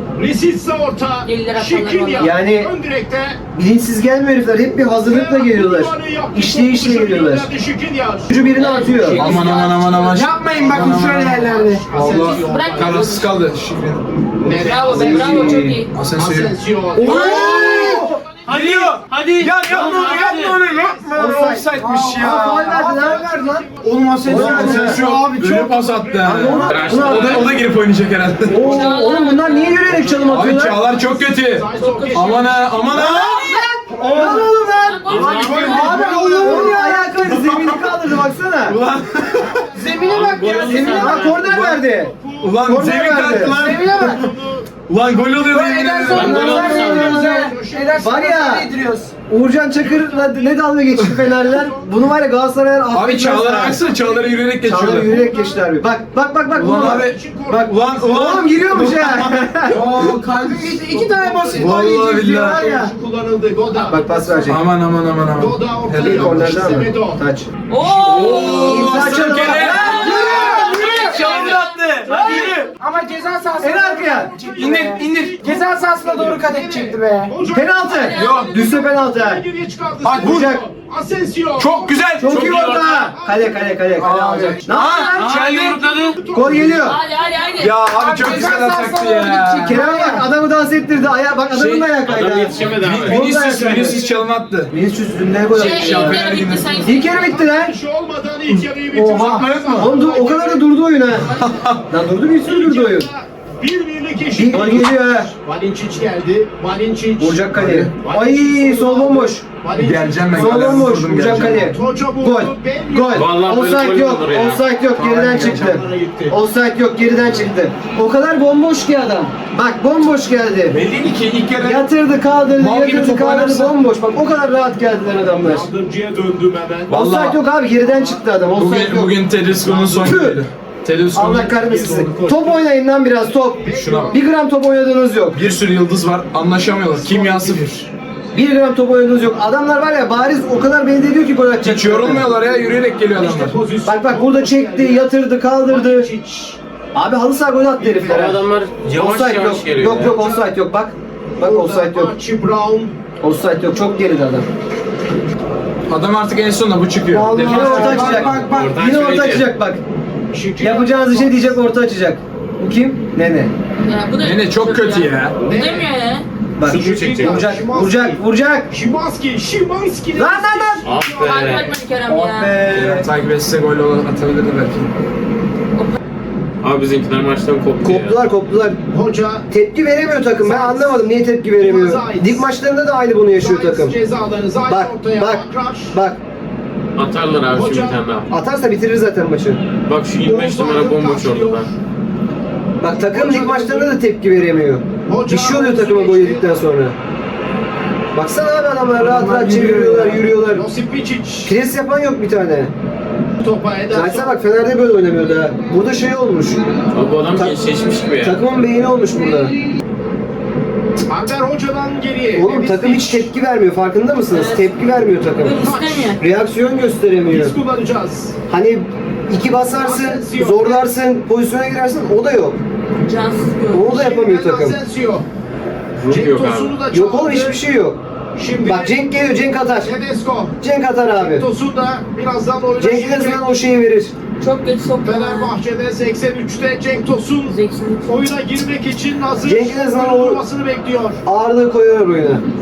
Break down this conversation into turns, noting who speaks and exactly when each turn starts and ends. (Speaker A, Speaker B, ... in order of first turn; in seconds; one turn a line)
Speaker A: 0.1-3.4
Speaker B: 1.2-2.4
Speaker C: 2.2-2.7
Speaker C: 3.5-7.5
Speaker A: 5.0-13.2
Speaker C: 8.3-9.4
Speaker B: 8.5-9.1
Speaker D: 9.1-14.1
Speaker E: 10.1-11.9
Speaker B: 12.1-13.3
Speaker A: 14.4-15.6
Speaker B: 14.7-15.9
Speaker C: 14.9-15.8
Speaker D: 15.9-22.9
Speaker A: 16.1-17.6
Speaker E: 16.9-20.6
Speaker B: 17.1-17.5
Speaker C: 17.1-18.2
Speaker A: 18.2-18.6
Speaker B: 19.1-19.4
Speaker A: 19.6-21.3
Speaker B: 20.0-20.5
Speaker C: 21.1-21.6
Speaker E: 21.3-25.7
Speaker C: 22.2-23.6
Speaker A: 22.9-27.6
Speaker D: 24.1-28.8
Speaker C: 24.2-25.0
Speaker C: 26.2-27.6
Speaker F: 26.7-27.4
Speaker C: 28.5-30.8
Speaker A: 28.5-28.8
Speaker B: 28.6-29.9
Speaker A: 29.9-32.9
Speaker D: 30.3-33.4
Speaker B: 31.7-32.3
Speaker E: 32.9-34.6
Speaker C: 32.9-38.8
Speaker B: 33.1-33.7
Speaker B: 34.5-35.9
Speaker F: 35.0-35.7
Speaker D: 35.1-38.0
Speaker E: 35.6-37.1
Speaker D: 38.7-39.7
Speaker A: 39.4-40.6
Speaker E: 39.7-41.2
Speaker F: 40.0-41.4
Speaker C: 40.6-43.6
Speaker A: 41.2-42.7
Speaker D: 41.4-41.8
Speaker D: 42.4-44.2
Speaker A: 43.4-44.7
Speaker E: 43.4-44.2
Speaker D: 44.9-46.6
Speaker E: 45.4-49.1
Speaker F: 46.1-47.3
Speaker C: 46.5-47.0
Speaker A: 46.5-48.1
Speaker C: 48.0-48.7
Speaker C: 49.3-53.8
Speaker A: 49.8-51.9
Speaker D: 52.9-55.2
Speaker A: 53.7-55.7
Speaker C: 54.6-60.1
Speaker D: 56.5-60.2
Speaker A: 56.9-58.4
Speaker E: 59.6-62.9
Speaker A: 60.3-64.0
Speaker D: 61.5-62.6
Speaker C: 63.9-64.6
Speaker B: 64.0-64.5
Speaker D: 64.5-66.8
Speaker A: 65.3-67.2
Speaker C: 66.0-67.5
Speaker B: 67.7-68.9
Speaker A: 67.8-70.6
Speaker D: 68.0-72.7
Speaker C: 68.6-70.0
Speaker E: 69.5-77.3
Speaker B: 69.7-72.2
Speaker C: 72.0-72.5
Speaker A: 72.2-84.7
Speaker C: 73.6-74.3
Speaker D: 74.6-75.2
Speaker C: 77.5-79.4
Speaker B: 77.8-78.8
Speaker D: 78.2-78.5
Speaker D: 80.0-80.5
Speaker C: 80.1-80.6
Speaker D: 81.5-82.4
Speaker C: 82.2-85.4
Speaker F: 82.3-83.0
Speaker D: 84.0-86.2
Speaker E: 84.0-84.5
Speaker A: 85.6-87.0
Speaker C: 86.3-87.0
Speaker B: 86.8-87.9
Speaker D: 87.6-89.8
Speaker E: 87.8-90.3
Speaker C: 89.6-94.0
Speaker D: 91.5-92.0
Speaker F: 92.0-93.2
Speaker A: 92.2-92.9
Speaker D: 92.8-94.7
Speaker C: 94.7-96.3
Speaker B: 95.5-97.4
Speaker D: 95.5-96.8
Speaker C: 96.8-97.7
Speaker A: 96.9-100.7
Speaker E: 98.9-99.8
Speaker D: 99.2-99.9
Speaker C: 99.7-101.3
Speaker D: 101.1-101.8
Speaker C: 101.9-103.1
Speaker A: 102.4-107.4
Speaker C: 104.3-105.3
Speaker C: 107.2-109.4
Speaker D: 107.5-107.9
Speaker A: 108.0-110.9
Speaker D: 109.7-111.8
Speaker C: 110.3-120.8
Speaker A: 111.7-113.3
Speaker F: 113.1-114.6
Speaker D: 115.0-115.9
Speaker A: 115.3-116.3
Speaker D: 120.7-121.8
Speaker C: 121.6-125.7
Speaker D: 122.6-123.8
Speaker A: 125.4-127.0
Speaker D: 126.9-127.4
Speaker C: 126.9-129.2
Speaker A: 127.8-128.2
Speaker D: 128.5-131.5
Speaker A: 129.6-130.0
Speaker C: 129.9-130.4
Speaker C: 131.1-135.4
Speaker A: 131.5-132.6
Speaker A: 133.6-134.2
Speaker D: 133.7-134.1
Speaker D: 135.3-137.8
Speaker A: 136.9-137.9
Speaker C: 138.3-142.3
Speaker D: 141.6-143.6
Speaker A: 143.1-146.6
Speaker C: 143.8-146.1
Speaker C: 146.9-148.4
Speaker A: 147.8-148.3
Speaker F: 148.1-150.1
Speaker C: 148.9-152.1
Speaker A: 150.0-150.5
Speaker A: 151.4-153.0
Speaker C: 153.2-154.5
Speaker D: 155.9-158.4
Speaker E: 157.1-158.8
Speaker C: 157.4-159.8
Speaker F: 158.4-159.5
Speaker A: 160.3-161.6
Speaker C: 160.6-163.5
Speaker B: 163.8-166.2
Speaker D: 164.2-165.4
Speaker A: 165.4-165.9
Speaker C: 166.6-168.7
Speaker A: 166.6-171.7
Speaker F: 166.7-167.5
Speaker C: 170.1-170.8
Speaker F: 170.8-171.7
Speaker B: 171.1-172.6
Speaker C: 172.1-173.1
Speaker D: 172.6-174.9
Speaker F: 176.6-178.2
Speaker C: 177.8-178.8
Speaker A: 178.9-179.5
Speaker C: 179.5-184.0
Speaker A: 180.2-182.4
Speaker A: 183.3-186.0
Speaker C: 184.6-186.2
Speaker F: 186.9-188.3
Speaker A: 187.5-188.0
Speaker C: 188.3-189.6
Speaker F: 189.8-191.7
Speaker A: 190.2-191.7
Speaker C: 192.8-196.9
Speaker A: 193.0-193.9
Speaker A: 195.1-196.5
Speaker C: 198.1-200.7
Speaker E: 198.9-200.4
Speaker A: 200.4-201.5
Speaker C: 201.4-202.7
Speaker A: 203.4-204.4
Speaker C: 203.9-206.6
Speaker F: 206.9-208.4
Speaker C: 207.3-207.6
Speaker C: 208.2-209.5
Speaker A: 211.1-213.3
Speaker C: 212.3-215.6
Speaker B: 214.3-214.8
Speaker B: 215.3-216.2
Speaker A: 215.6-216.2
Speaker C: 216.2-217.5
Speaker A: 217.2-218.3
Speaker C: 218.5-222.6
Speaker A: 219.8-220.8
Speaker B: 223.0-223.9
Speaker C: 223.7-224.8
Speaker A: 223.8-225.2
Speaker F: 225.9-226.7
Speaker A: 226.1-227.6
Speaker C: 226.9-228.0
Speaker A: 228.3-229.0
Speaker C: 228.6-229.9
Speaker A: 229.8-230.6
Speaker C: 230.6-231.4
Speaker A: 231.1-233.6
Speaker C: 232.8-234.1
Speaker B: 234.4-235.6
Speaker A: 235.0-241.2
Speaker B: 237.4-238.6
Speaker C: 239.4-240.4
Speaker C: 241.2-242.4